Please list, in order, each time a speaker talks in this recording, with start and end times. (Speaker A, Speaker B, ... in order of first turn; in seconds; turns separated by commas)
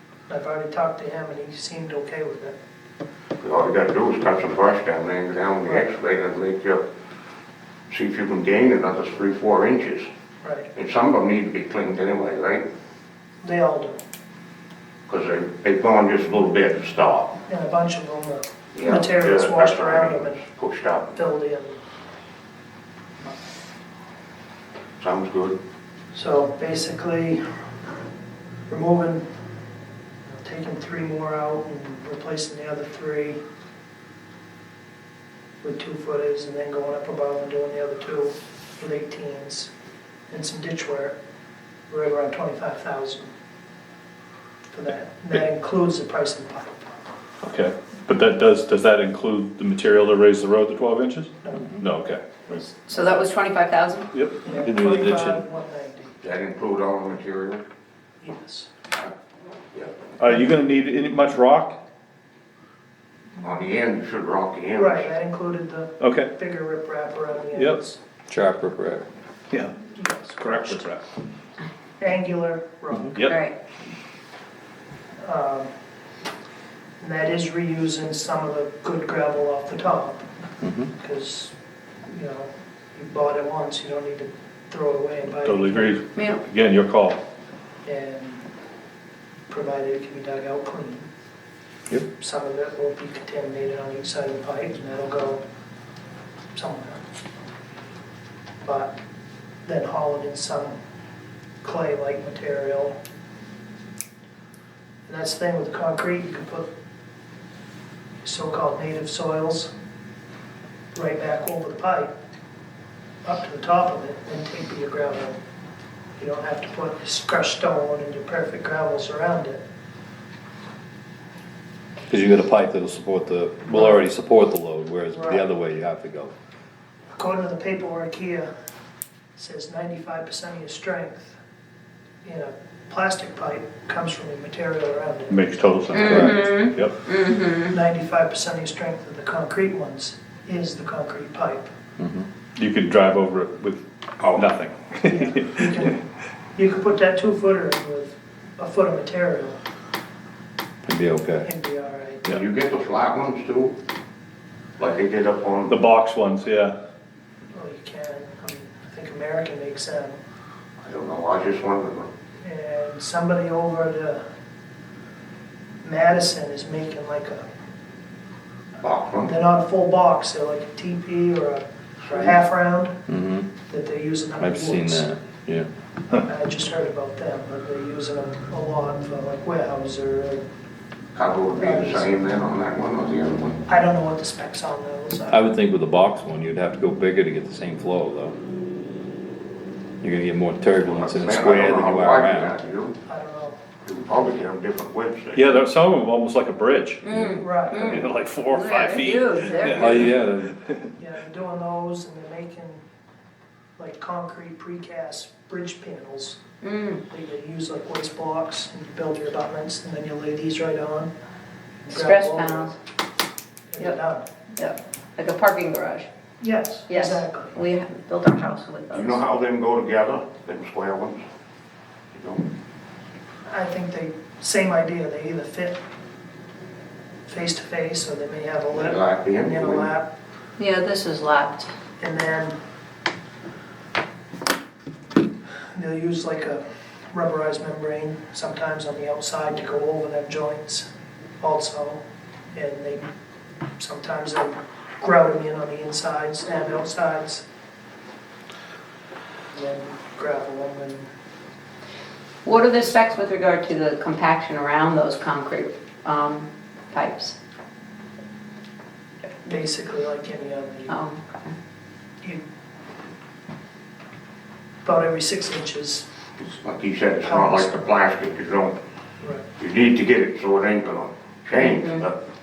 Speaker A: 0.3-2.6, Speaker B: 3.4-6.8, Speaker B: 7.9-10.1, Speaker A: 10.4-10.7, Speaker B: 10.7-12.7, Speaker A: 13.4-14.0, Speaker B: 15.1-17.4, Speaker A: 17.5-20.4, Speaker B: 18.7-21.2, Speaker A: 21.1-21.8, Speaker B: 25.0-25.6, Speaker A: 26.1-27.4, Speaker A: 28.7-29.3, Speaker A: 30.3-33.4, Speaker A: 35.6-39.7, Speaker A: 40.3-41.1, Speaker A: 41.9-43.3, Speaker A: 44.7-46.9, Speaker C: 47.4-52.6, Speaker A: 51.4-51.8, Speaker D: 52.9-54.1, Speaker C: 54.1-55.1, Speaker A: 54.4-56.2, Speaker E: 54.7-55.4, Speaker B: 56.2-57.6, Speaker A: 58.2-58.7, Speaker C: 60.2-61.8, Speaker B: 63.4-65.1, Speaker A: 64.8-68.0, Speaker C: 66.0-66.3, Speaker E: 68.3-69.0, Speaker A: 69.8-70.9, Speaker C: 70.4-71.0, Speaker A: 72.0-73.2, Speaker D: 73.2-73.5, Speaker A: 75.2-75.7, Speaker A: 77.0-80.3, Speaker E: 80.6-80.9, Speaker A: 81.0-81.5, Speaker A: 82.0-86.0, Speaker C: 85.4-87.2, Speaker D: 86.2-86.4, Speaker A: 87.8-88.5, Speaker A: 89.5-91.1, Speaker A: 92.2-95.4, Speaker A: 96.5-97.0, Speaker A: 98.6-99.0, Speaker A: 99.7-100.8, Speaker A: 101.6-103.0, Speaker A: 105.1-106.7, Speaker A: 108.2-109.7, Speaker A: 110.9-112.1, Speaker A: 113.2-115.4, Speaker A: 116.2-119.6, Speaker E: 122.1-126.3, Speaker A: 123.7-124.0, Speaker A: 125.1-125.5, Speaker A: 127.1-128.5, Speaker A: 129.4-131.4, Speaker A: 132.2-135.4, Speaker C: 135.3-136.9, Speaker D: 135.9-137.8, Speaker E: 136.1-136.4, Speaker A: 137.7-141.7, Speaker E: 142.0-142.2, Speaker C: 142.6-145.8, Speaker B: 144.2-144.5, Speaker A: 145.0-146.0, Speaker A: 146.6-149.6, Speaker E: 150.9-151.5, Speaker A: 151.4-152.3, Speaker B: 152.2-153.8, Speaker B: 154.8-155.8, Speaker C: 155.7-156.8, Speaker A: 157.5-160.2, Speaker B: 160.8-162.1, Speaker A: 162.4-164.2, Speaker A: 165.8-167.5, Speaker B: 168.8-169.3, Speaker A: 169.2-173.0, Speaker E: 173.1-173.5, Speaker A: 173.7-175.1, Speaker E: 174.4-175.7, Speaker A: 176.2-180.4, Speaker B: 181.1-183.6, Speaker A: 181.5-182.1, Speaker A: 183.7-185.5, Speaker E: 185.3-188.4, Speaker E: 190.0-192.5, Speaker B: 190.8-193.0, Speaker A: 193.1-193.6, Speaker B: 193.8-195.6, Speaker C: 195.3-197.0, Speaker D: 197.0-200.1, Speaker A: 197.4-198.0, Speaker C: 197.8-200.1, Speaker E: 199.8-200.6, Speaker A: 201.0-202.8, Speaker A: 203.8-206.4, Speaker D: 206.6-207.0, Speaker A: 207.1-211.1, Speaker A: 211.8-212.7, Speaker D: 211.9-212.8, Speaker A: 213.7-214.3, Speaker D: 214.5-216.1, Speaker A: 216.4-217.5, Speaker D: 216.9-219.2, Speaker B: 218.9-221.2, Speaker B: 222.1-222.5, Speaker A: 223.5-225.8, Speaker A: 227.3-230.1, Speaker B: 228.7-229.9, Speaker D: 230.6-231.7, Speaker A: 232.0-232.6, Speaker A: 235.7-240.9, Speaker A: 241.4-242.0, Speaker A: 242.5-243.1, Speaker A: 243.8-247.4, Speaker A: 249.5-251.1, Speaker D: 252.4-257.4, Speaker A: 259.4-261.0, Speaker D: 260.9-261.5, Speaker A: 264.8-266.1, Speaker B: 266.4-268.8, Speaker A: 267.2-267.8, Speaker A: 269.2-269.5, Speaker B: 269.6-272.2, Speaker D: 271.6-272.0